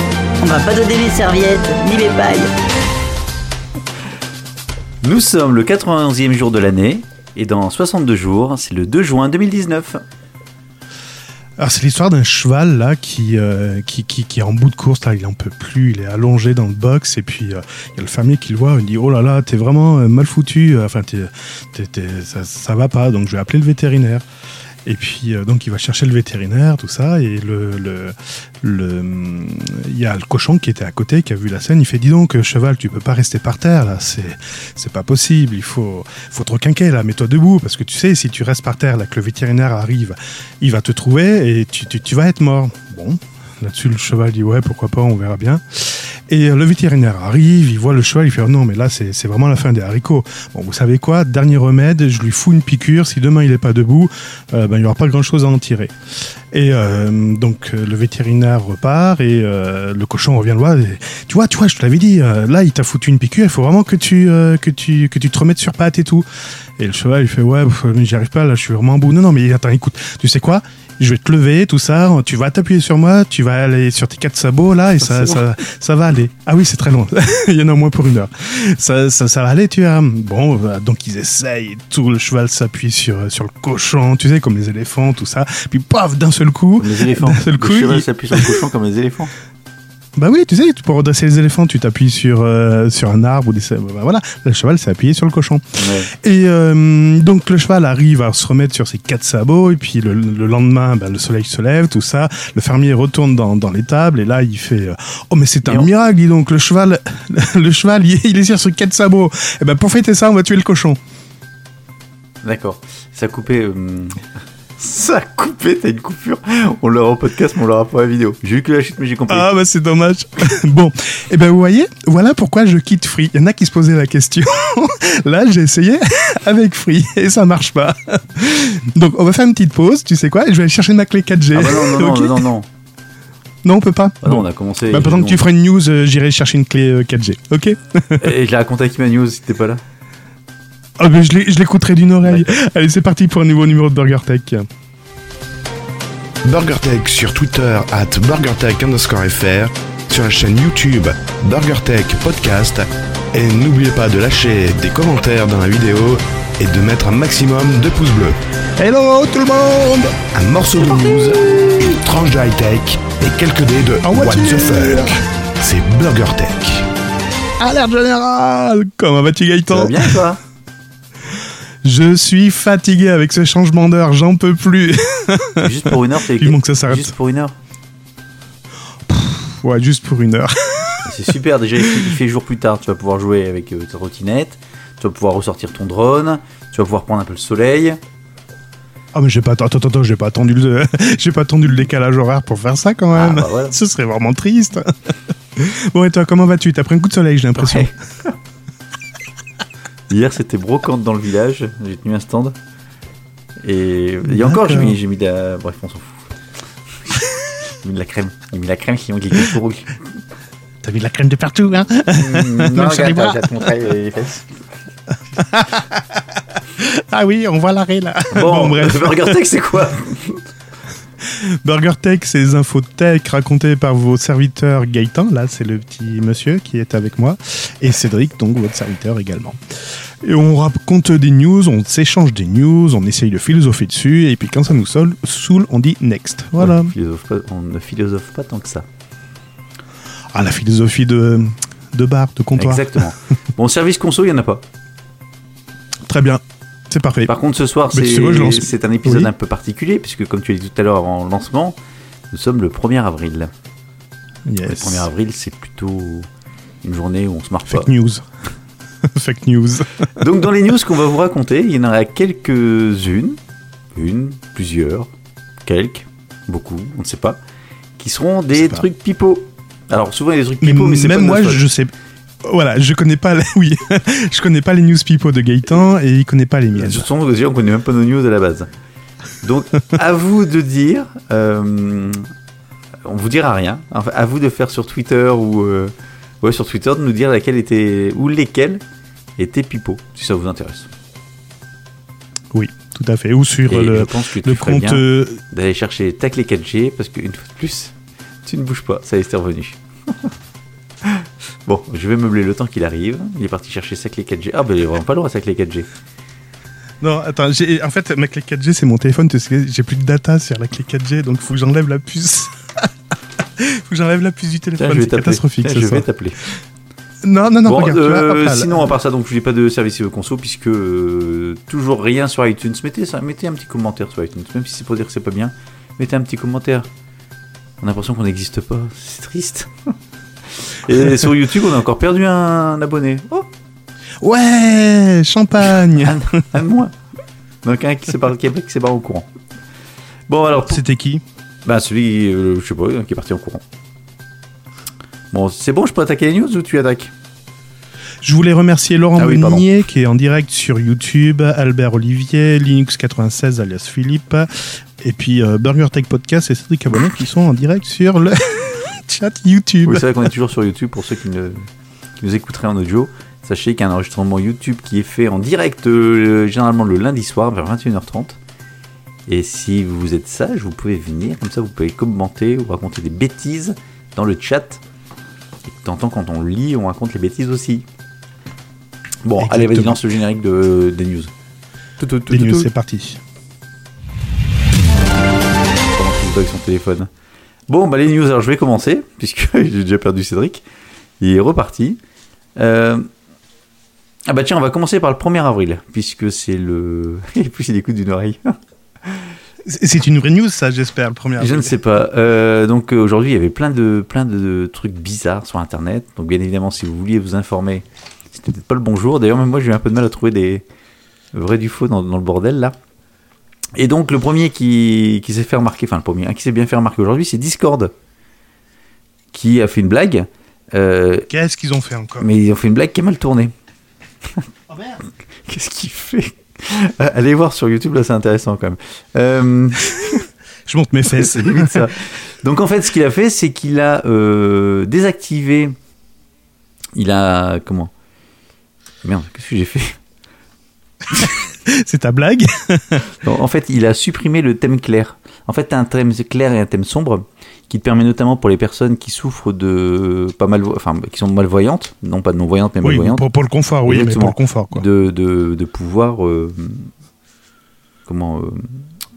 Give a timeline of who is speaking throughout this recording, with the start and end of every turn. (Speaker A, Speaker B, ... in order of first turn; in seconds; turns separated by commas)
Speaker A: 0.4-2.5, Speaker B: 5.0-10.0, Speaker C: 11.6-24.2, Speaker C: 24.9-88.6, Speaker B: 75.0-75.4, Speaker B: 86.8-89.3, Speaker C: 90.2-111.0, Speaker B: 95.8-96.1, Speaker B: 105.7-105.9, Speaker B: 112.4-114.2, Speaker B: 114.8-119.5, Speaker C: 119.3-132.5, Speaker B: 131.5-132.7, Speaker C: 133.7-138.3, Speaker B: 134.2-135.4, Speaker B: 138.2-139.8, Speaker C: 141.0-144.7, Speaker B: 142.2-142.5, Speaker D: 146.4-158.4, Speaker C: 158.8-160.3, Speaker D: 160.3-166.8, Speaker C: 164.0-165.2, Speaker C: 167.6-170.2, Speaker B: 169.7-170.4, Speaker C: 171.8-177.1, Speaker B: 175.6-177.6, Speaker C: 179.1-182.1, Speaker B: 181.0-188.0, Speaker C: 189.1-197.9, Speaker B: 193.1-193.8, Speaker B: 197.6-198.3, Speaker B: 200.1-202.6, Speaker B: 203.6-206.3, Speaker C: 204.2-205.0, Speaker B: 207.7-210.0, Speaker C: 210.8-213.7, Speaker B: 212.1-214.6, Speaker C: 215.4-219.4, Speaker B: 218.3-220.4, Speaker C: 221.2-236.9, Speaker B: 236.6-238.9, Speaker C: 240.3-243.1, Speaker B: 242.6-244.6, Speaker C: 246.1-247.3, Speaker B: 247.3-251.8, Speaker C: 247.9-249.3, Speaker B: 252.3-253.5, Speaker C: 254.5-255.1, Speaker B: 254.6-256.3, Speaker B: 256.8-257.9, Speaker C: 257.7-258.3, Speaker C: 259.0-260.3, Speaker B: 260.1-263.4, Speaker B: 263.9-265.1, Speaker B: 265.6-267.4, Speaker B: 268.0-271.6, Speaker C: 268.6-268.9, Speaker C: 270.6-277.1, Speaker B: 276.8-278.7, Speaker B: 279.4-282.3, Speaker B: 283.1-288.8, Speaker B: 289.4-290.9, Speaker C: 292.5-295.4, Speaker B: 293.7-297.9, Speaker B: 298.4-300.3, Speaker B: 301.0-305.9, Speaker C: 307.0-312.9, Speaker C: 313.4-316.1, Speaker B: 314.8-316.4, Speaker C: 317.2-319.0, Speaker B: 317.6-326.9, Speaker B: 327.8-329.9, Speaker B: 330.6-333.5, Speaker C: 334.2-336.4, Speaker B: 335.9-336.9, Speaker B: 337.6-339.3, Speaker B: 340.3-340.8, Speaker C: 340.6-341.2, Speaker B: 341.7-343.6, Speaker B: 345.3-347.1, Speaker C: 348.2-360.3, Speaker B: 349.2-349.6, Speaker B: 359.8-361.6, Speaker B: 362.2-368.4, Speaker B: 369.3-374.8, Speaker B: 375.7-377.9, Speaker B: 379.2-381.3, Speaker C: 379.4-380.0, Speaker B: 382.0-382.7, Speaker C: 382.3-383.2, Speaker B: 385.9-387.1, Speaker B: 387.7-390.6, Speaker B: 391.2-392.0, Speaker B: 392.6-393.1, Speaker B: 394.3-398.6, Speaker C: 399.6-401.8, Speaker B: 401.4-410.6, Speaker B: 411.3-412.8, Speaker B: 413.8-417.9, Speaker B: 419.3-421.3, Speaker C: 421.3-422.3, Speaker B: 422.2-423.5, Speaker C: 424.7-425.0, Speaker B: 425.5-430.2, Speaker C: 430.7-431.9, Speaker B: 431.1-435.8, Speaker B: 436.9-437.9, Speaker B: 439.0-440.0, Speaker C: 441.1-443.1, Speaker B: 443.2-453.2, Speaker C: 452.8-454.9, Speaker B: 453.9-456.9, Speaker B: 458.1-458.8